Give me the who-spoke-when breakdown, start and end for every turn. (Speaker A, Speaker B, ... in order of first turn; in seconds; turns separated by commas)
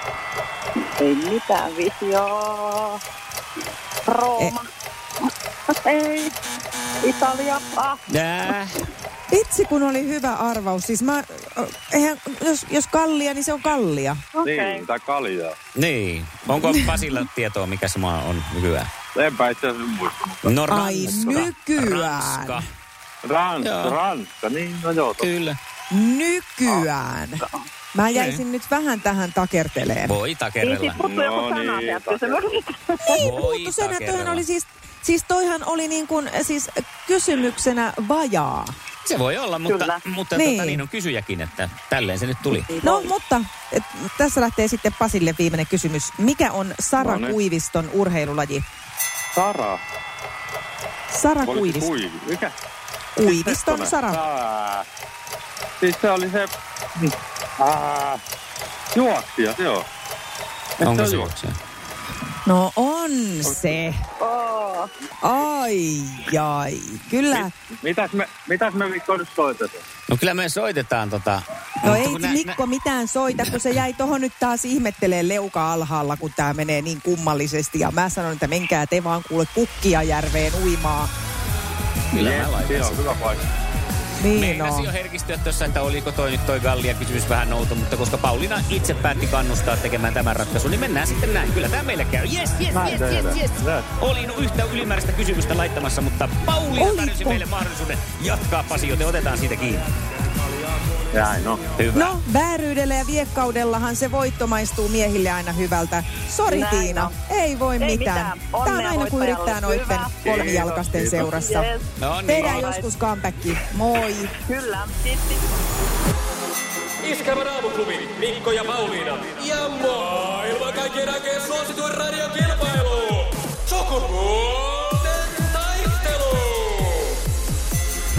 Speaker A: 1.0-3.0, Speaker A: 4.1-4.6, Speaker A: 5.8-6.3, Speaker A: 7.0-8.0, Speaker B: 8.1-8.7, Speaker C: 9.3-14.2, Speaker A: 14.3-14.9, Speaker D: 14.4-15.6, Speaker B: 15.8-18.9, Speaker D: 19.1-21.5, Speaker B: 20.4-22.6, Speaker C: 20.7-22.6, Speaker D: 23.2-25.3, Speaker B: 23.6-24.0, Speaker B: 25.2-25.6, Speaker C: 25.9-27.4, Speaker C: 27.9-30.2, Speaker B: 28.1-28.4, Speaker B: 30.1-31.1, Speaker A: 30.6-33.2, Speaker D: 31.0-32.5, Speaker C: 33.0-38.7, Speaker B: 33.2-34.4, Speaker B: 39.0-42.7, Speaker A: 39.7-40.0, Speaker C: 40.3-40.8, Speaker A: 42.7-43.1, Speaker C: 42.8-48.6, Speaker D: 47.0-47.4, Speaker D: 49.3-49.8, Speaker C: 51.1-51.9, Speaker D: 51.4-52.5, Speaker C: 53.2-54.2, Speaker D: 53.2-54.9, Speaker D: 55.8-58.2, Speaker D: 59.0-59.9, Speaker D: 60.8-61.3, Speaker B: 60.8-61.6, Speaker C: 62.5-64.0, Speaker A: 64.2-64.9, Speaker C: 65.2-67.5, Speaker D: 67.3-69.8, Speaker B: 70.1-72.6, Speaker C: 71.8-81.1, Speaker B: 82.1-83.1, Speaker D: 82.1-83.5, Speaker C: 84.2-84.9, Speaker B: 84.3-99.9, Speaker D: 92.8-93.9, Speaker C: 96.7-97.5, Speaker D: 101.1-101.6, Speaker B: 101.8-102.2, Speaker C: 101.9-111.7, Speaker A: 106.5-107.1, Speaker A: 107.8-110.5, Speaker D: 110.3-111.2, Speaker A: 111.2-112.9, Speaker B: 112.0-112.5, Speaker C: 112.2-114.3, Speaker A: 114.3-115.4, Speaker E: 117.0-123.2, Speaker E: 123.7-126.5